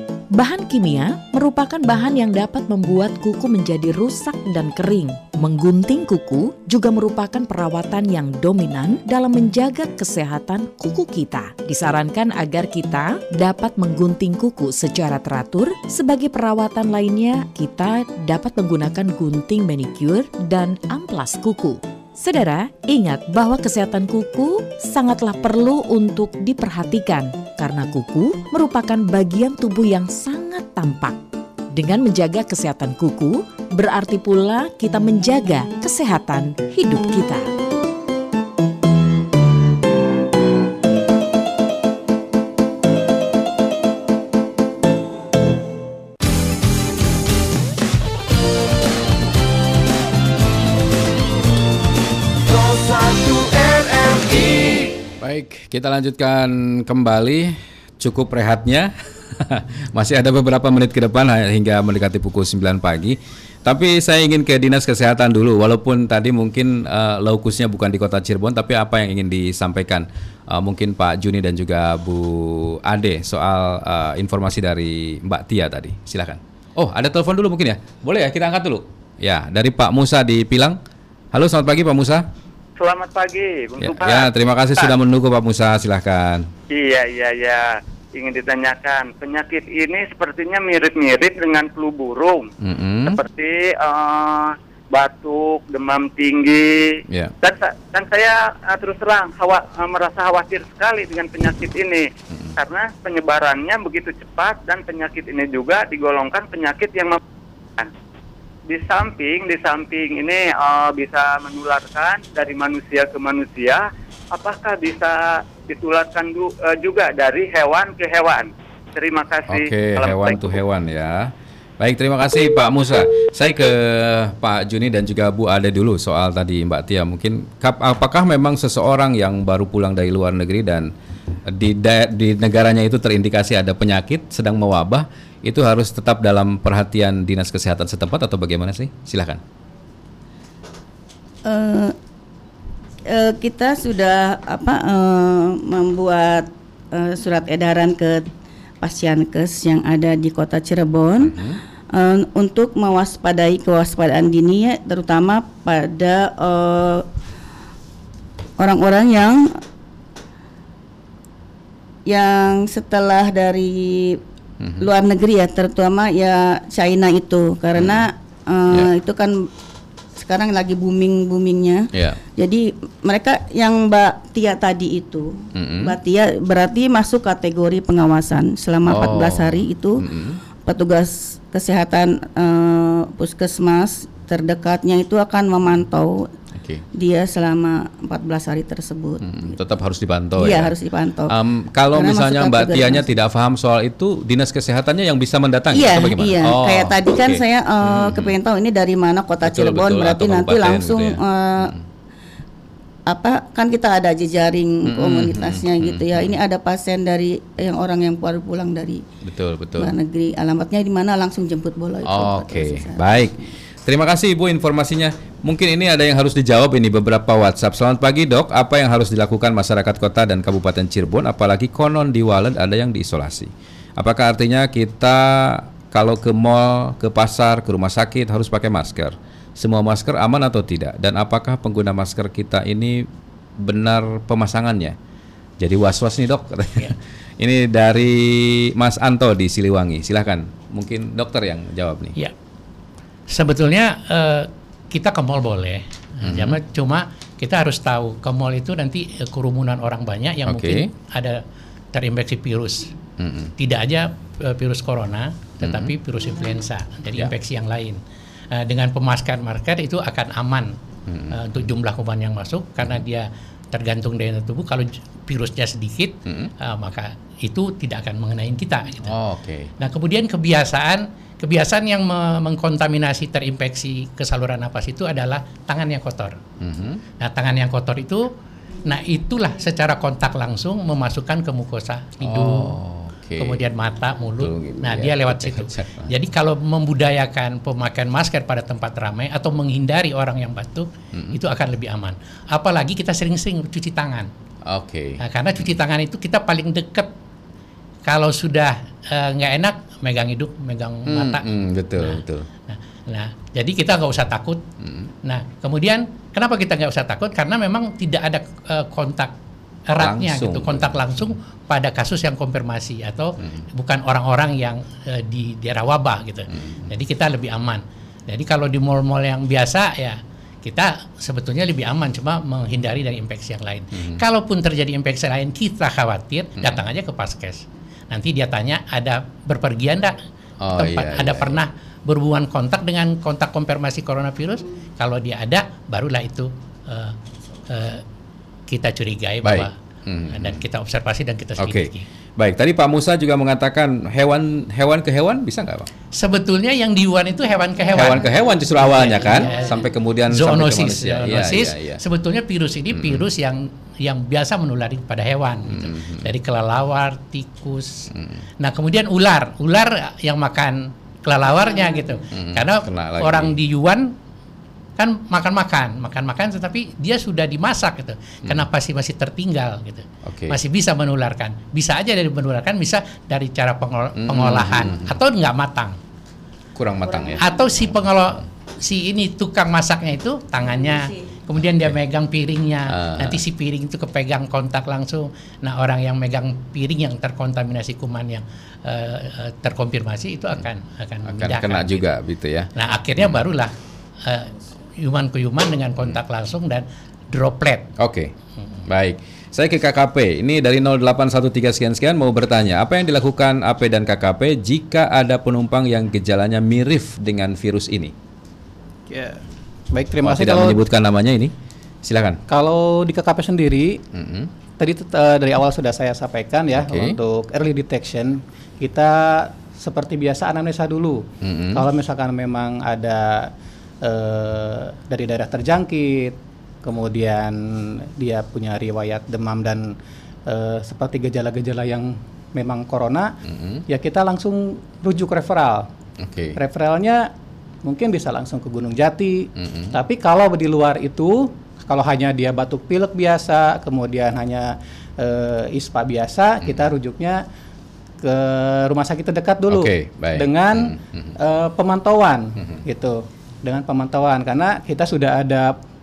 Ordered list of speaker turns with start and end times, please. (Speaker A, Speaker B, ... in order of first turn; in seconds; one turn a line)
Speaker A: 0.3-31.2
Speaker A: 31.7-37.5
Speaker B: 52.5-80.8
Speaker B: 81.3-82.3
Speaker C: 82.8-84.9
Speaker B: 83.8-86.5
Speaker C: 86.7-92.5
Speaker B: 92.6-93.2
Speaker C: 93.0-107.2
Speaker C: 108.7-120.6
Speaker B: 119.5-130.9
Speaker B: 131.5-139.4
Speaker D: 141.4-141.9
Speaker D: 143.1-151.4
Speaker B: 151.2-151.6
Speaker D: 151.9-157.1
Speaker D: 158.6-159.6
Speaker D: 162.1-164.2
Speaker B: 164.6-164.9
Speaker D: 164.8-169.5
Speaker B: 167.7-168.1
Speaker D: 170.2-180.0
Speaker B: 171.9-172.2
Speaker B: 175.6-175.9
Speaker B: 178.9-180.4
Speaker D: 180.6-186.3
Speaker B: 186.6-186.8
Speaker D: 186.9-189.2
Speaker B: 189.2-190.8
Speaker D: 190.4-191.3
Speaker B: 191.3-198.4
Speaker D: 191.9-193.1
Speaker D: 195.7-201.7
Speaker B: 199.4-201.8
Speaker D: 203.1-209.0
Speaker B: 204.9-206.4
Speaker B: 209.2-209.9
Speaker D: 209.8-213.4
Speaker B: 212.1-233.1
Speaker B: 233.6-234.9
Speaker B: 235.6-242.1
Speaker E: 243.3-251.4
Speaker B: 246.2-246.6
Speaker B: 250.5-250.9
Speaker E: 251.9-252.9
Speaker B: 253.2-253.5
Speaker E: 253.6-258.0
Speaker B: 255.6-255.9
Speaker E: 258.5-260.8
Speaker B: 261.1-261.7
Speaker E: 261.3-269.1
Speaker B: 266.3-266.5
Speaker B: 269.1-269.7
Speaker E: 269.8-276.4
Speaker B: 276.6-277.0
Speaker E: 277.2-278.3
Speaker E: 278.8-282.7
Speaker B: 282.2-283.6
Speaker E: 283.4-294.3
Speaker B: 284.4-286.1
Speaker B: 294.7-295.7
Speaker E: 295.2-297.1
Speaker E: 298.1-301.4
Speaker B: 301.1-302.5
Speaker E: 302.0-304.6
Speaker B: 304.8-305.1
Speaker E: 305.2-309.3
Speaker E: 309.9-330.2
Speaker B: 310.0-311.2
Speaker B: 316.5-316.9
Speaker B: 323.9-324.2
Speaker B: 330.6-331.6
Speaker E: 330.8-337.2
Speaker E: 337.7-338.0
Speaker E: 338.7-339.7
Speaker B: 339.4-340.6
Speaker E: 340.3-342.1
Speaker B: 341.6-345.9
Speaker E: 346.1-358.1
Speaker B: 347.9-352.0
Speaker B: 352.9-353.2
Speaker B: 355.7-356.2
Speaker B: 358.1-358.4
Speaker E: 358.6-364.1
Speaker B: 362.3-363.6
Speaker E: 365.0-376.0
Speaker B: 370.2-370.6
Speaker B: 374.2-375.2
Speaker B: 376.7-378.0
Speaker D: 377.1-377.4
Speaker E: 377.4-392.0
Speaker B: 382.9-383.4
Speaker B: 391.3-393.4
Speaker E: 392.7-393.7
Speaker E: 394.2-397.9
Speaker B: 398.0-398.3
Speaker B: 398.9-408.1
Speaker F: 409.1-410.8
Speaker B: 410.2-411.5
Speaker B: 412.0-412.4
Speaker F: 412.5-414.0
Speaker B: 414.1-414.5
Speaker F: 414.8-423.5
Speaker B: 416.7-417.2
Speaker B: 421.4-421.8
Speaker F: 424.0-429.9
Speaker F: 430.5-433.3
Speaker B: 433.4-433.8
Speaker F: 433.9-435.9
Speaker B: 436.2-436.6
Speaker F: 436.6-437.3
Speaker F: 437.8-447.4
Speaker B: 439.6-439.9
Speaker F: 448.2-455.7
Speaker B: 449.7-451.3